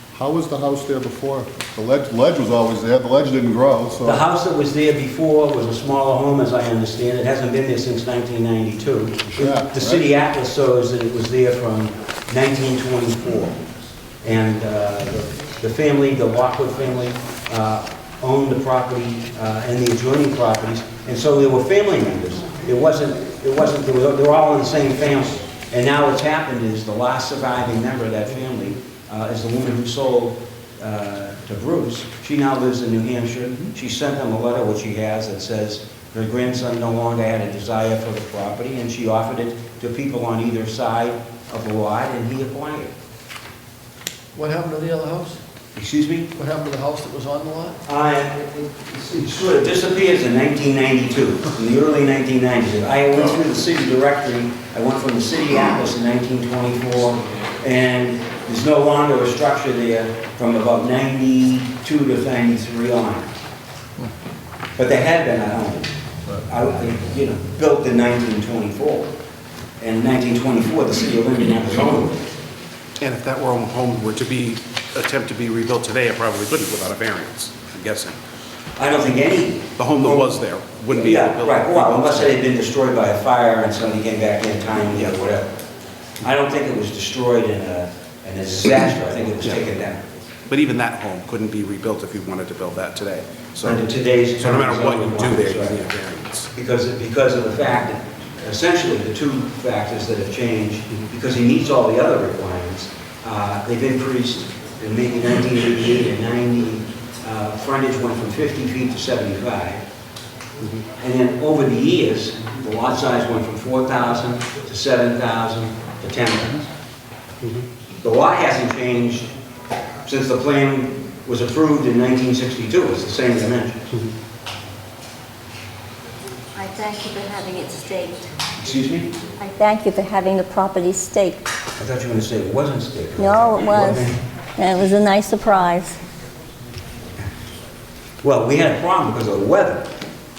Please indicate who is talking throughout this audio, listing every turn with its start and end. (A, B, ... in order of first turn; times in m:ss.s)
0:00.1-0:04.2 A
0:04.0-0:13.6 B
0:09.3-0:10.1 A
0:14.2-0:42.9 B
0:44.3-0:45.4 C
0:45.8-0:46.3 B
0:46.3-0:47.8 C
0:47.8-1:03.3 B
1:04.8-1:09.1 B
1:09.8-1:12.3 B
1:13.0-1:18.2 D
1:18.8-1:20.3 B
1:19.8-1:22.4 D
1:20.9-1:25.5 B
1:26.2-1:30.0 B
1:30.5-1:33.8 D
1:33.6-1:35.8 B
1:34.4-1:36.5 D
1:36.5-1:49.8 B
1:50.8-1:56.7 B
1:58.0-1:59.3 B
2:00.0-2:03.9 B
2:06.5-2:08.3 E
2:08.6-2:09.1 B
2:09.4-2:11.4 E
2:11.8-2:14.2 B
2:13.2-2:16.0 E
2:18.2-2:19.9 B